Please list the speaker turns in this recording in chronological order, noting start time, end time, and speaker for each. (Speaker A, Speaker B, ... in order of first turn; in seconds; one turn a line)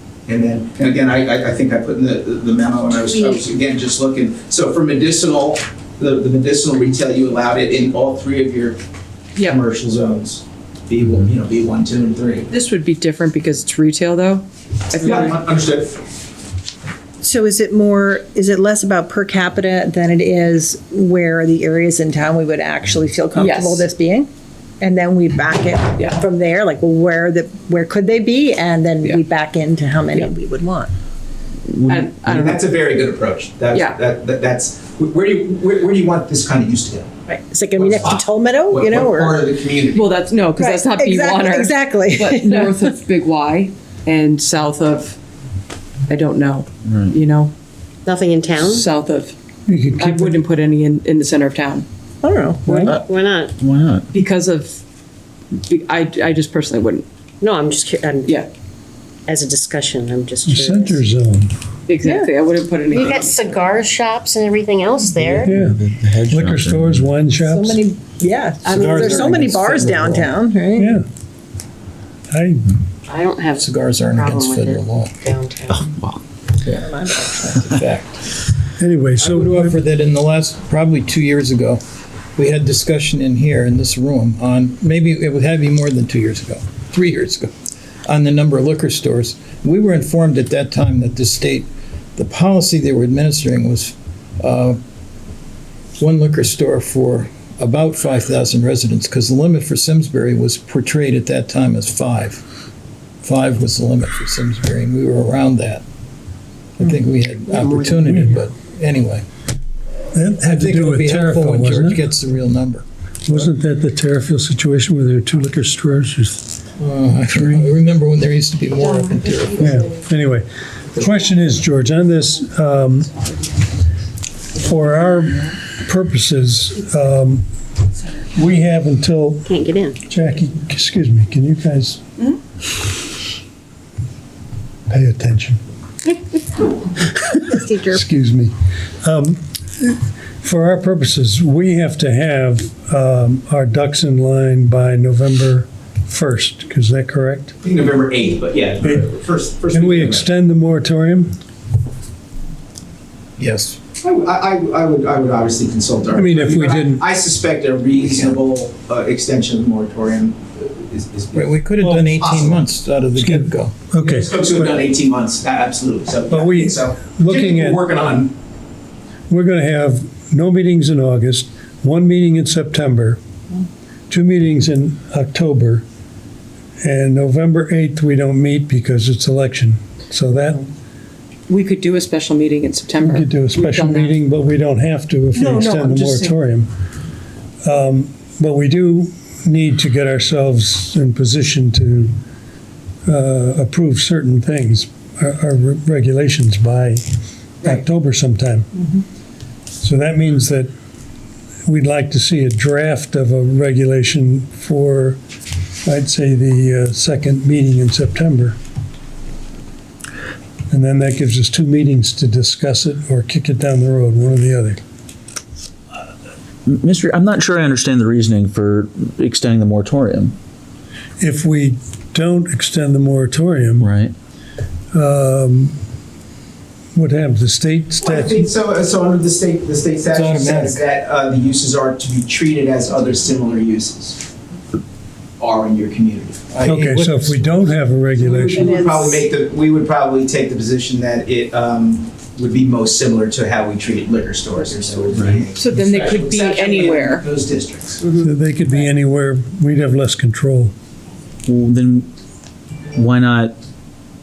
Speaker A: 0.3-8.8
Speaker B: 9.3-9.6
Speaker A: 9.4-12.5
Speaker B: 12.5-15.3
Speaker A: 15.0-16.0
Speaker C: 17.2-24.3
Speaker B: 23.4-23.9
Speaker C: 24.8-30.9
Speaker B: 25.9-26.2
Speaker B: 31.7-32.6
Speaker A: 32.1-37.1
Speaker B: 33.7-34.0
Speaker C: 37.3-39.4
Speaker A: 37.8-40.1
Speaker B: 39.9-45.2
Speaker C: 40.6-42.9
Speaker B: 46.1-47.5
Speaker D: 46.8-47.1
Speaker E: 48.0-48.8
Speaker B: 48.6-49.3
Speaker F: 49.6-50.4
Speaker B: 50.0-51.9
Speaker C: 52.2-52.8
Speaker B: 52.6-52.9
Speaker E: 53.0-53.5
Speaker D: 53.6-54.0
Speaker B: 54.1-54.8
Speaker B: 55.6-57.0
Speaker E: 57.4-58.4
Speaker E: 59.3-61.0
Speaker F: 60.4-61.5
Speaker B: 61.9-63.6
Speaker C: 62.0-62.3
Speaker E: 62.9-65.5
Speaker D: 65.2-67.0
Speaker F: 65.4-67.9
Speaker C: 67.3-71.0
Speaker G: 68.7-70.3
Speaker B: 68.7-69.1
Speaker F: 70.7-71.0
Speaker F: 72.3-72.7
Speaker E: 73.1-75.8
Speaker G: 73.6-75.1
Speaker D: 75.7-76.2
Speaker G: 76.6-78.4
Speaker C: 76.7-77.4
Speaker F: 78.8-79.8
Speaker G: 79.2-81.8
Speaker G: 82.3-87.5
Speaker G: 88.0-94.8
Speaker G: 96.0-102.4
Speaker G: 103.2-105.8
Speaker G: 106.8-109.2
Speaker E: 107.6-107.9
Speaker F: 108.0-108.4
Speaker F: 110.1-112.0
Speaker G: 110.4-112.8
Speaker F: 113.2-116.5
Speaker G: 116.8-119.7
Speaker F: 119.5-123.1
Speaker F: 124.5-127.5
Speaker F: 128.3-129.5
Speaker E: 129.5-130.0
Speaker F: 130.1-132.0
Speaker F: 134.9-135.6
Speaker C: 137.5-138.0
Speaker F: 137.9-138.5
Speaker F: 139.0-147.5
Speaker A: 147.6-150.3
Speaker F: 148.8-149.1
Speaker F: 149.7-151.3
Speaker G: 153.4-153.8
Speaker A: 154.0-162.6
Speaker F: 156.1-157.0
Speaker G: 158.0-158.4
Speaker G: 161.3-163.7
Speaker F: 163.2-164.8
Speaker A: 164.0-168.3
Speaker F: 166.3-167.8
Speaker F: 169.3-173.2
Speaker F: 174.1-175.8
Speaker F: 176.8-180.7
Speaker B: 181.5-184.2
Speaker F: 183.0-186.7
Speaker B: 185.3-186.3
Speaker F: 187.6-192.1
Speaker F: 193.1-197.0
Speaker F: 197.6-198.7
Speaker F: 199.8-200.7
Speaker F: 201.7-205.2
Speaker F: 205.8-208.6
Speaker F: 210.7-214.8
Speaker D: 216.7-220.3
Speaker F: 221.2-223.9
Speaker D: 223.8-224.1
Speaker F: 224.9-225.8
Speaker F: 226.9-228.5
Speaker A: 228.0-234.2
Speaker G: 230.1-230.8
Speaker A: 235.4-236.4
Speaker G: 236.5-237.7
Speaker F: 236.6-238.7
Speaker A: 238.2-248.0
Speaker C: 238.5-239.2
Speaker D: 245.2-245.4
Speaker B: 245.5-247.2
Speaker F: 248.2-250.7
Speaker D: 251.5-252.1
Speaker D: 252.9-253.6